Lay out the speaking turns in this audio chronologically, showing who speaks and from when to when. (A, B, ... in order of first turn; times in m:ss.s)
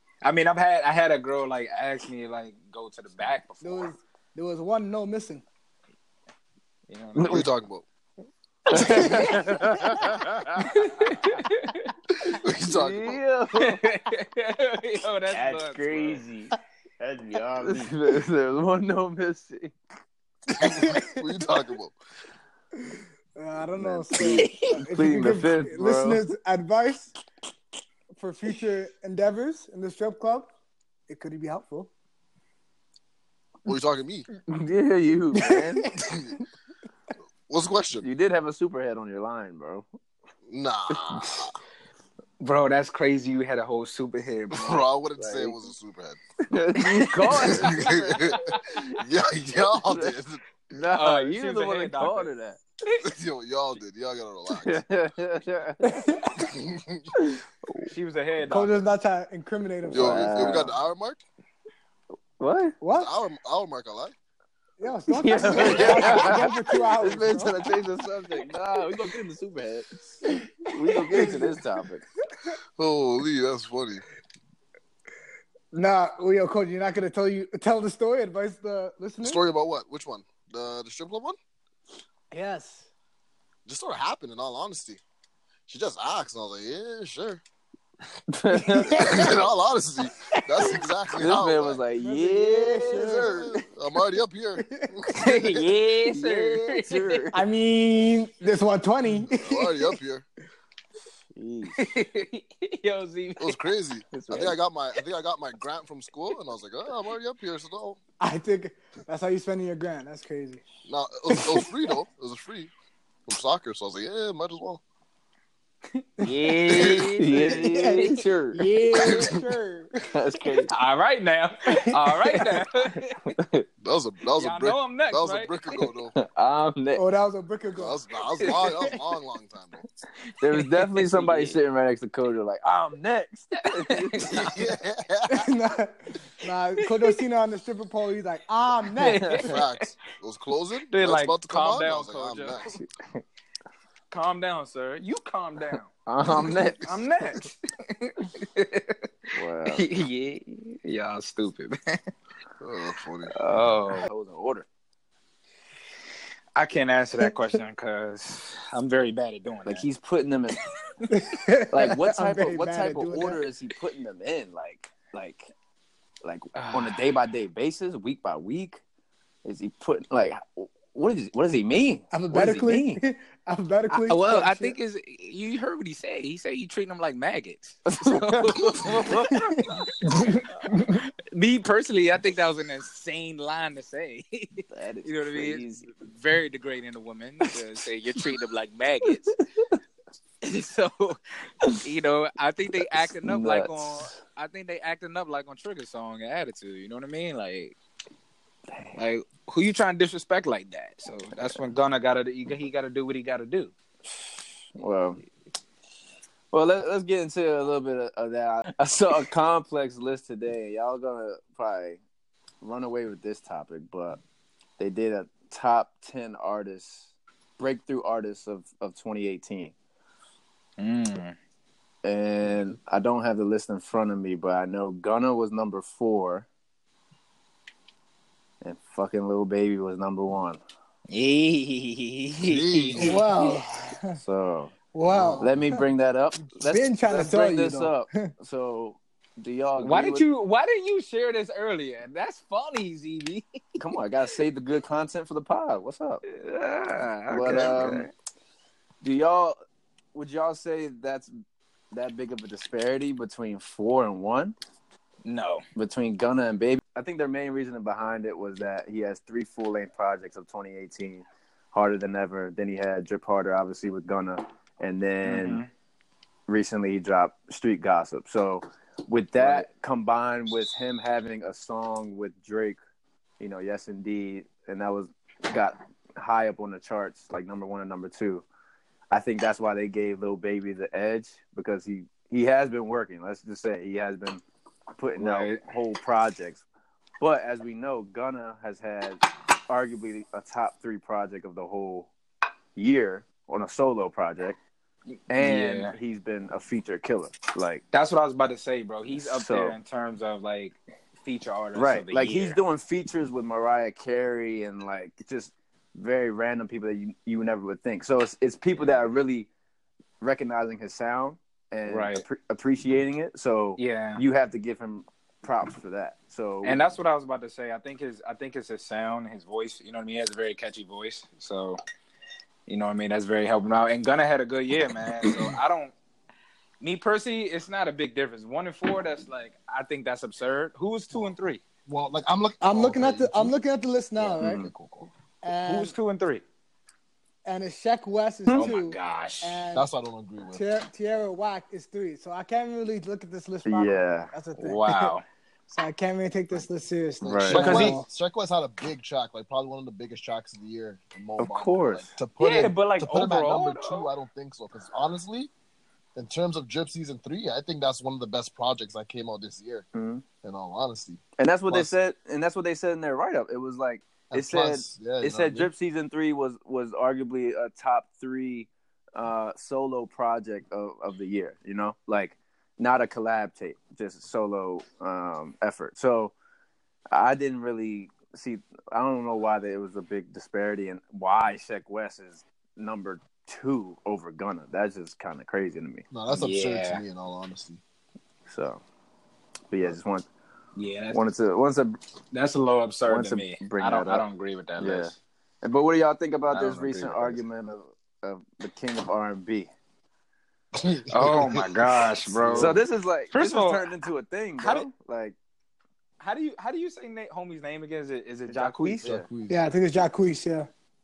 0:00.2-0:03.9 A
0:03.6-0:05.4 B
0:06.9-0:07.5 A
0:07.2-0:07.4 C
0:07.2-0:07.8 D
0:08.7-0:11.4 C
0:08.7-0:09.0 D
0:08.8-0:09.2 A
0:10.6-0:11.9 A
0:12.2-0:13.2 D
0:12.6-0:13.9 C
0:13.6-0:16.2 A
0:15.3-0:17.9 E
0:17.6-0:19.8 C
0:20.5-0:22.0 D
0:20.8-0:21.1 A
0:23.4-0:27.1 B
0:23.7-0:26.2 C
0:24.4-0:24.7 A
0:28.2-0:30.5 B
0:31.1-0:31.9 B
0:33.6-0:34.3 D
0:34.5-0:35.9 C
0:36.0-0:36.3 D
0:37.5-0:38.0 D
0:38.0-0:39.8 C
0:40.5-0:41.5 D
0:42.4-0:44.8 A
0:44.5-0:46.2 D
0:45.2-0:45.6 C
0:46.5-0:48.8 C
0:46.9-0:47.7 A
0:47.4-0:50.6 D
0:49.8-0:50.1 C
0:50.7-0:52.6 C
0:50.9-0:52.3 A
0:53.0-0:54.8 D
0:54.5-0:55.8 C
0:56.5-0:57.0 D
0:57.6-0:57.9 C
0:57.9-0:58.8 A
0:58.5-1:00.6 B
0:59.8-1:00.7 C
0:59.9-1:01.2 D
1:02.4-1:02.8 C
1:02.8-1:03.1 B
1:02.9-1:04.1 D
1:04.8-1:07.5 B
1:05.1-1:12.0 C
1:05.5-1:06.4 D
1:11.1-1:11.5 B
1:12.8-1:14.0 D
1:15.7-1:19.4 B
1:19.2-1:21.4 D
1:22.3-1:22.9 B
1:23.6-1:25.0 D
1:25.7-1:27.4 D
1:28.3-1:29.2 C
1:28.6-1:29.0 B
1:28.9-1:31.8 D
1:31.1-1:33.6 C
1:32.0-1:33.5 B
1:32.9-1:35.7 D
1:34.6-1:35.0 B
1:35.1-1:37.2 A
1:36.2-1:37.4 C
1:37.3-1:40.0 B
1:39.4-1:40.2 D
1:41.3-1:41.9 C
1:41.8-1:43.6 A
1:43.4-1:48.0 D
1:44.1-1:44.6 C
1:48.2-1:50.6 B
1:50.8-1:52.7 D
1:53.3-1:54.8 D
1:56.2-1:58.2 A
1:56.7-1:57.0 D
1:57.1-1:58.6 C
1:57.4-2:00.1 B
1:59.0-1:59.4 D
2:00.1-2:00.7 C
2:00.7-2:03.4 A
2:03.4-2:03.6 C
2:03.8-2:06.1 D
2:04.4-2:05.9 A
2:06.2-2:07.0 C
2:06.9-2:08.0 B
2:07.8-2:09.8 D
2:08.4-2:08.7 A
2:10.4-2:14.5 C
2:10.5-2:11.6 A
2:13.6-2:14.5 A
2:14.2-2:15.5 D
2:15.3-2:19.4 B
2:19.0-2:19.9 A
2:19.4-2:22.8 D
2:20.9-2:22.7 A
2:22.6-2:23.2 C
2:24.1-2:29.0 A
2:26.0-2:27.0 C
2:29.3-2:29.8 C
2:29.6-2:32.1 A
2:32.6-2:33.3 D
2:33.3-2:34.7 C
2:33.4-2:34.1 A
2:36.6-2:39.9 A
2:39.6-2:40.6 C
2:41.1-2:43.4 B
2:41.7-2:45.5 C
2:46.2-2:48.8 C
2:46.5-2:47.2 A
2:49.4-2:53.0 C
2:52.1-2:54.8 B
2:53.9-3:09.4 A
2:57.9-2:59.0 C
3:04.7-3:05.9 C
3:10.4-3:17.7 A
3:12.8-3:14.2 C
3:18.7-3:19.0 C
3:18.9-3:23.7 A
3:24.7-3:25.2 C
3:26.5-3:32.0 C
3:32.6-3:34.2 C
3:34.8-3:39.7 C
3:40.8-3:41.4 A
3:42.0-3:46.5 C
3:48.6-3:50.6 C
3:51.1-3:53.1 A
3:52.4-3:53.3 D
3:53.0-3:54.2 B
3:54.2-3:54.7 C
3:54.9-3:55.8 B
3:55.0-3:55.5 D
3:55.4-4:00.2 C
3:56.6-3:58.3 B
3:59.8-4:03.6 A
4:03.8-4:06.2 C
4:06.2-4:08.1 A
4:07.3-4:08.1 C
4:09.0-4:09.6 C
4:10.1-4:11.3 C
4:11.9-4:14.6 C
4:15.2-4:15.6 A
4:15.8-4:25.6 C
4:25.2-4:25.7 A
4:26.5-4:32.8 C
4:33.4-4:38.4 C
4:39.1-4:44.4 C
4:44.9-4:46.6 C
4:45.2-4:45.6 A
4:47.2-4:52.1 C
4:52.7-4:54.6 C
4:55.3-4:57.8 C
4:55.4-4:55.9 A
4:57.9-5:02.6 A
4:59.1-4:59.8 C
5:01.7-5:09.5 C
5:10.2-5:16.8 C
5:11.9-5:12.2 A
5:13.8-5:14.2 A
5:16.6-5:21.8 A
5:22.7-5:25.9 A
5:26.8-5:31.6 A
5:31.9-5:33.5 D
5:32.6-5:34.6 B
5:34.4-5:34.7 C
5:34.4-5:35.0 A
5:35.4-5:35.9 B
5:35.6-5:36.4 A
5:37.4-5:39.9 B
5:38.5-5:38.7 C
5:38.5-5:39.6 A
5:39.7-5:40.7 D
5:40.5-5:45.1 B
5:43.6-5:44.3 C
5:44.6-5:45.2 A
5:45.7-5:48.1 B
5:47.2-5:47.9 C
5:47.3-5:55.5 D
5:47.6-5:47.9 A
5:51.4-5:52.2 C
5:52.4-5:54.1 A
5:56.2-5:59.8 D
5:59.9-6:00.2 C
6:00.4-6:01.9 D
6:01.4-6:16.3 C
6:04.3-6:05.7 D
6:17.1-6:26.0 C
6:26.1-6:27.8 D
6:26.3-6:27.0 A
6:28.5-6:28.8 C
6:29.7-6:30.3 C
6:30.8-6:31.2 A
6:31.1-6:32.0 C
6:32.3-6:35.2 A
6:33.0-6:34.2 C
6:34.8-6:39.7 C
6:36.5-6:37.4 A
6:40.8-6:42.8 D
6:41.1-6:42.8 A
6:42.5-6:45.4 C
6:43.3-6:43.9 A
6:44.6-6:44.9 A
6:46.2-6:49.2 A
6:48.5-6:49.3 C
6:48.8-6:50.7 B
6:49.2-6:49.6 D